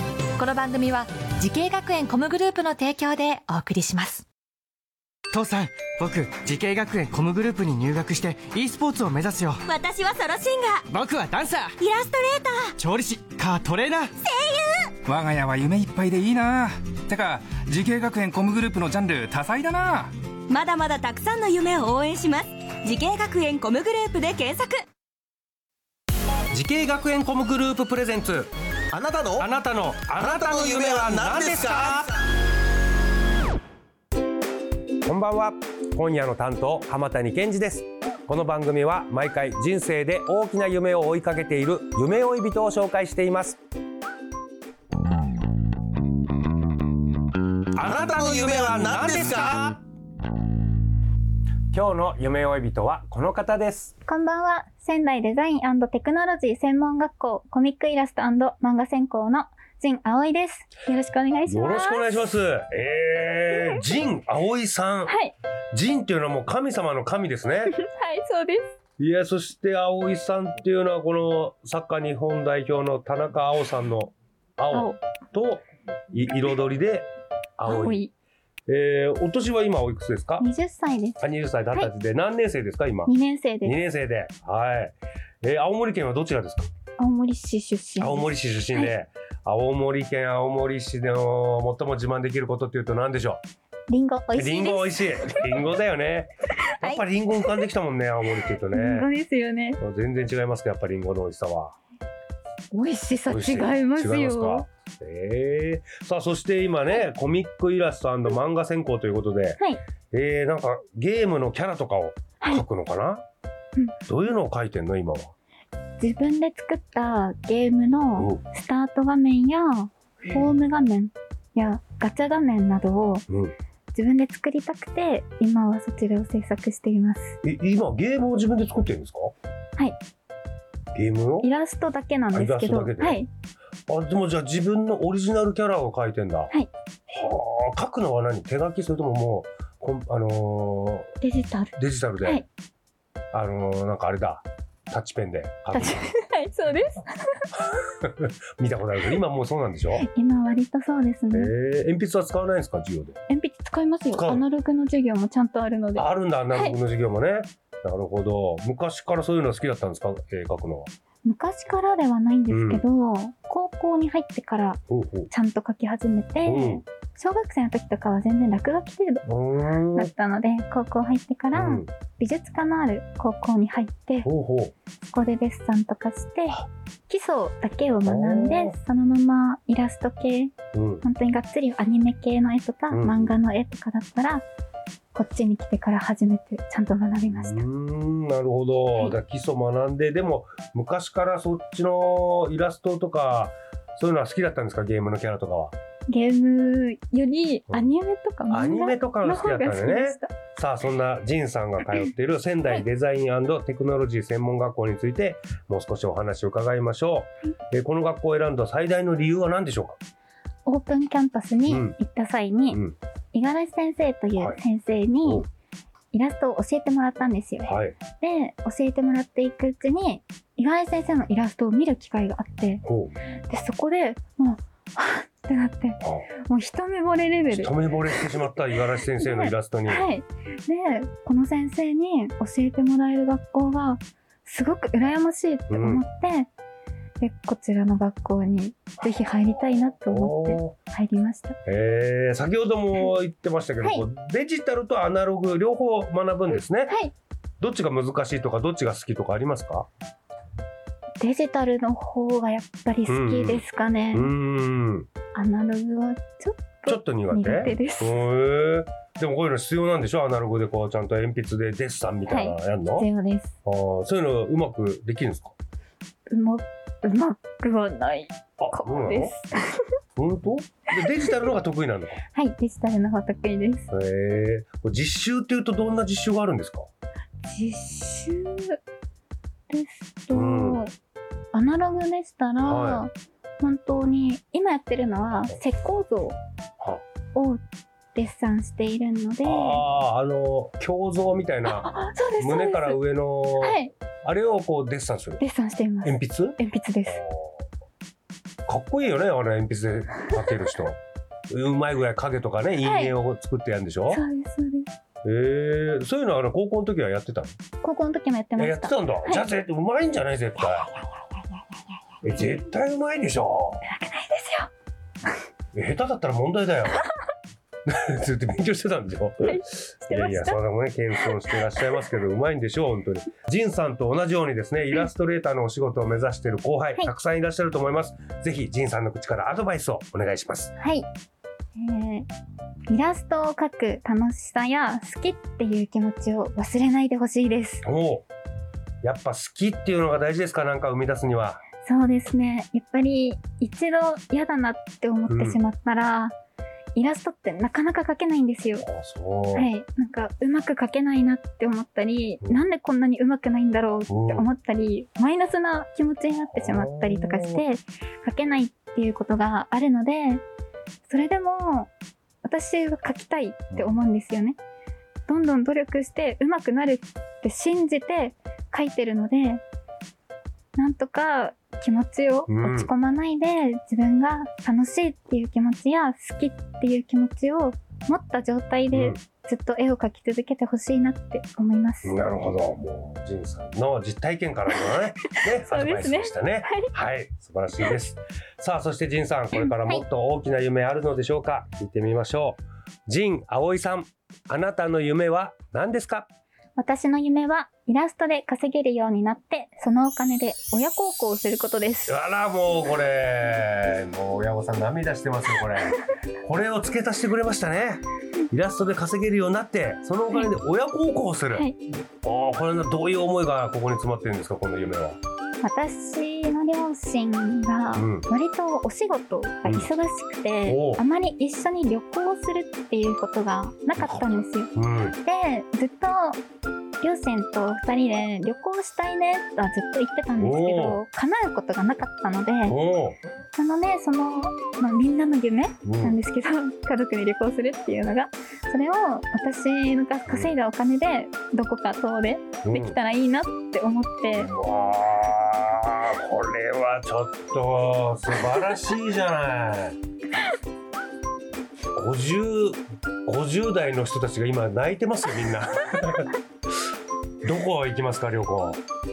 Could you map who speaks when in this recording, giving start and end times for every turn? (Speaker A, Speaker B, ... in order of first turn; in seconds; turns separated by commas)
Speaker A: 0.4-4.3, Speaker B: 5.3-9.6, Speaker C: 9.7-10.8, Speaker B: 10.9-11.8, Speaker C: 11.8-12.7, Speaker B: 12.8-14.1, Speaker C: 14.2-14.9, Speaker D: 15.1-20.1, Speaker C: 20.5-24.8, Speaker E: 26.5-28.5, Speaker F: 28.9-29.5, Speaker E: 29.2-32.1, Speaker F: 30.3-31.9, Speaker E: 35.0-43.6, Speaker E: 47.8-49.8, Speaker E: 51.7-53.9, Speaker G: 54.1-62.2, Speaker E: 61.5-65.2, Speaker G: 65.1-65.3, Speaker E: 65.7-67.7, Speaker G: 67.7-68.7, Speaker E: 69.0-78.0, Speaker G: 74.7-75.0, Speaker G: 77.7-78.1, Speaker E: 78.7-80.5, Speaker G: 80.4-81.2, Speaker E: 81.2-83.1, Speaker G: 83.1-83.8, Speaker E: 83.6-86.7, Speaker G: 87.0-88.9, Speaker E: 88.0-93.4, Speaker G: 93.9-95.3, Speaker E: 94.4-99.1, Speaker G: 96.6-97.6, Speaker G: 98.7-99.8, Speaker E: 99.8-101.8, Speaker G: 102.7-104.7, Speaker E: 103.3-109.6, Speaker E: 110.1-113.2, Speaker E: 114.1-115.3, Speaker G: 116.0-123.2, Speaker E: 118.2-118.4, Speaker E: 123.3-123.5, Speaker G: 123.9-127.4, Speaker E: 127.4-129.3, Speaker E: 130.9-131.5, Speaker G: 131.4-133.3, Speaker E: 132.3-133.2, Speaker E: 133.9-136.5, Speaker E: 137.1-141.1, Speaker G: 141.2-142.5, Speaker E: 141.8-142.4, Speaker E: 143.3-146.1, Speaker G: 145.7-147.4, Speaker E: 148.0-150.1, Speaker G: 149.9-151.5, Speaker E: 151.3-153.2, Speaker G: 153.3-156.8, Speaker E: 154.1-154.4, Speaker E: 155.9-160.9, Speaker G: 161.2-164.8, Speaker E: 162.5-162.8, Speaker E: 164.9-165.3, Speaker G: 165.3-169.3, Speaker E: 166.4-166.8, Speaker E: 169.3-170.1, Speaker G: 169.9-174.3, Speaker E: 171.5-171.9, Speaker E: 174.2-174.7, Speaker G: 175.1-184.4, Speaker E: 178.1-178.8, Speaker E: 180.7-181.1, Speaker E: 182.9-183.4, Speaker G: 185.1-187.7, Speaker E: 187.3-195.7, Speaker G: 196.1-200.3, Speaker E: 198.5-210.0, Speaker G: 210.7-212.8, Speaker E: 211.7-212.0, Speaker G: 213.3-215.5, Speaker G: 216.1-222.8, Speaker E: 217.6-218.0, Speaker E: 222.8-223.2, Speaker G: 223.5-228.3, Speaker E: 227.5-230.1, Speaker G: 229.2-236.5, Speaker E: 235.7-236.0, Speaker G: 237.2-241.6, Speaker E: 240.1-240.8, Speaker E: 241.7-247.0, Speaker G: 246.9-247.1, Speaker E: 247.6-249.9, Speaker G: 251.2-254.3, Speaker E: 253.1-255.1, Speaker G: 255.3-258.2, Speaker E: 256.9-263.1, Speaker G: 262.3-263.5, Speaker E: 263.6-265.5, Speaker G: 266.3-269.8, Speaker E: 268.6-269.3, Speaker E: 270.2-272.2, Speaker G: 272.3-273.9, Speaker E: 273.9-276.9, Speaker G: 277.5-278.8, Speaker G: 279.7-280.9, Speaker E: 280.3-280.8, Speaker G: 281.5-286.4, Speaker E: 282.6-283.1, Speaker G: 287.3-287.6, Speaker G: 288.1-289.8, Speaker E: 289.4-295.4, Speaker G: 291.6-293.0, Speaker G: 293.6-293.9, Speaker G: 295.4-297.2, Speaker E: 296.0-297.6, Speaker E: 298.7-301.0, Speaker E: 301.5-304.2, Speaker G: 302.8-303.1, Speaker G: 304.1-304.9, Speaker E: 305.2-307.6, Speaker G: 307.8-309.5, Speaker E: 308.6-310.9, Speaker G: 310.6-312.3, Speaker E: 312.2-313.8, Speaker G: 313.9-314.7, Speaker E: 315.7-317.0, Speaker E: 317.9-330.7, Speaker G: 319.4-320.6, Speaker G: 321.3-321.6, Speaker G: 330.8-331.1, Speaker G: 331.8-332.3, Speaker G: 332.9-337.9, Speaker E: 337.8-338.2, Speaker E: 339.0-341.6, Speaker G: 341.8-346.3, Speaker E: 345.3-345.6, Speaker G: 346.9-348.9, Speaker E: 348.8-349.7, Speaker G: 349.5-360.4, Speaker E: 354.1-354.5, Speaker E: 356.6-357.6, Speaker G: 361.1-361.9, Speaker G: 362.4-364.6, Speaker E: 363.7-364.0, Speaker G: 365.3-369.6, Speaker G: 370.8-382.2, Speaker E: 372.5-372.9, Speaker E: 378.9-379.2, Speaker E: 382.0-396.3, Speaker G: 384.8-386.9, Speaker G: 389.6-390.0, Speaker G: 396.8-402.2, Speaker E: 402.1-415.2, Speaker G: 411.5-411.8, Speaker G: 415.6-426.4, Speaker E: 417.9-418.3, Speaker E: 420.7-421.0, Speaker E: 424.7-425.2, Speaker G: 427.0-432.8, Speaker E: 430.4-431.0, Speaker E: 432.7-433.2, Speaker G: 433.6-444.5, Speaker E: 435.9-436.2, Speaker E: 440.3-440.5, Speaker E: 442.6-443.0, Speaker E: 444.4-450.0, Speaker E: 451.9-456.3, Speaker E: 457.4-458.8